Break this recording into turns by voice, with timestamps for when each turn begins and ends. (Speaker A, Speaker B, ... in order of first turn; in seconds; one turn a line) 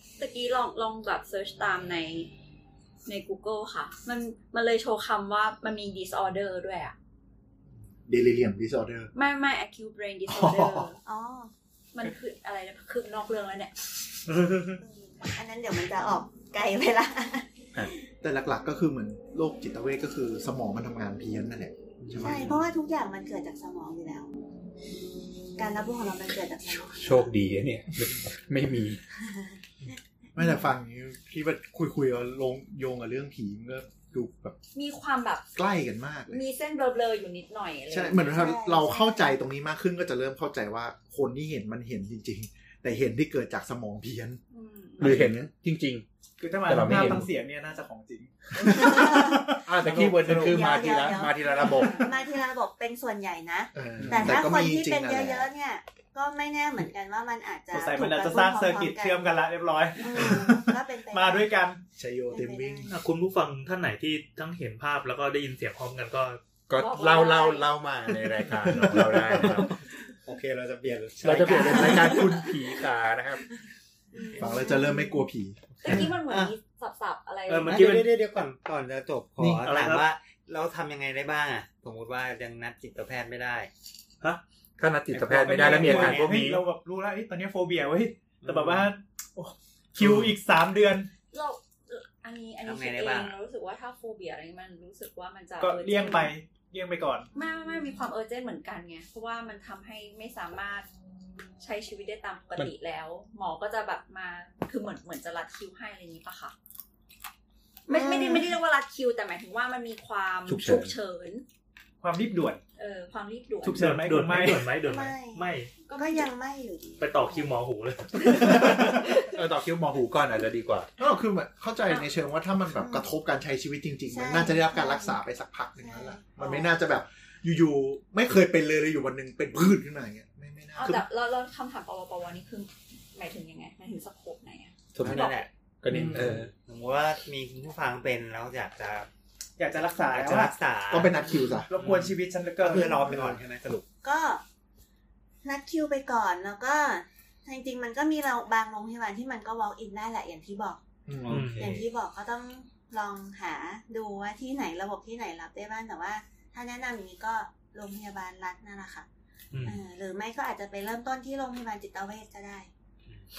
Speaker A: 0.2-2.3
Speaker A: 3.1-7.0
Speaker B: 8.1-9.1
Speaker A: 9.2-11.0
Speaker B: 10.3-10.9
Speaker C: 11.1-11.5
Speaker A: 11.9-13.8
Speaker C: 14.7-17.8
Speaker B: 18.2-22.6
Speaker D: 22.0-22.5
Speaker C: 22.2-24.3
Speaker C: 25.6-27.3
Speaker E: 26.7-29.0
Speaker B: 30.4-34.6
Speaker A: 34.7-35.5
Speaker B: 35.6-36.4
Speaker A: 36.3-38.6
Speaker B: 37.9-44.4
Speaker C: 38.1-39.2
Speaker A: 44.5-45.1
Speaker E: 45.0-46.0
Speaker B: 45.0-45.5
Speaker F: 46.4-50.6
Speaker E: 46.6-47.3
Speaker C: 48.6-49.5
Speaker E: 49.7-52.1
Speaker B: 49.8-50.6
Speaker C: 50.3-59.2
Speaker A: 51.5-52.1
Speaker B: 53.8-55.5
Speaker E: 54.0-54.4
Speaker F: 57.7-61.8
Speaker C: 60.0-61.5
Speaker B: 62.0-63.0
Speaker C: 62.3-62.9
Speaker D: 62.9-66.4
Speaker E: 66.7-69.7
Speaker A: 66.8-67.7
Speaker B: 68.7-69.6
Speaker G: 70.2-72.5
Speaker E: 71.2-73.4
Speaker D: 71.4-71.8
Speaker A: 71.7-72.3
Speaker A: 74.1-74.9
Speaker B: 74.4-76.1
Speaker C: 74.6-75.0
Speaker A: 75.8-77.9
Speaker G: 75.9-76.5
Speaker G: 77.5-83.7
Speaker D: 77.7-78.0
Speaker B: 79.4-79.6
Speaker D: 79.7-80.1
Speaker E: 84.8-86.6
Speaker G: 85.1-86.3
Speaker F: 85.3-91.1
Speaker G: 88.4-88.9
Speaker E: 90.0-90.3
Speaker A: 91.3-96.3
Speaker G: 92.6-93.3
Speaker F: 95.6-97.3
Speaker A: 97.3-100.9
Speaker A: 101.6-106.5
Speaker A: 107.9-111.4
Speaker C: 107.9-108.5
Speaker E: 110.5-110.9
Speaker F: 112.0-112.6
Speaker A: 112.8-113.9
Speaker F: 113.6-114.7
Speaker D: 113.7-115.7
Speaker C: 114.8-117.5
Speaker A: 115.9-116.3
Speaker D: 117.0-118.8
Speaker A: 118.5-119.3
Speaker E: 118.7-120.9
Speaker B: 121.0-131.0
Speaker C: 122.8-123.1
Speaker C: 124.1-125.2
Speaker C: 125.8-126.7
Speaker A: 130.8-135.4
Speaker E: 134.9-136.5
Speaker G: 135.0-135.5
Speaker B: 135.9-136.5
Speaker G: 136.1-139.1
Speaker F: 139.6-140.6
Speaker G: 140.1-141.2
Speaker B: 140.9-141.7
Speaker F: 141.7-143.1
Speaker G: 141.8-142.1
Speaker G: 142.6-143.8
Speaker B: 142.7-143.4
Speaker C: 144.0-144.4
Speaker C: 145.4-150.8
Speaker B: 151.1-151.6
Speaker G: 151.3-151.8
Speaker D: 151.3-151.8
Speaker C: 151.6-159.1
Speaker D: 159.5-159.8
Speaker C: 159.6-162.7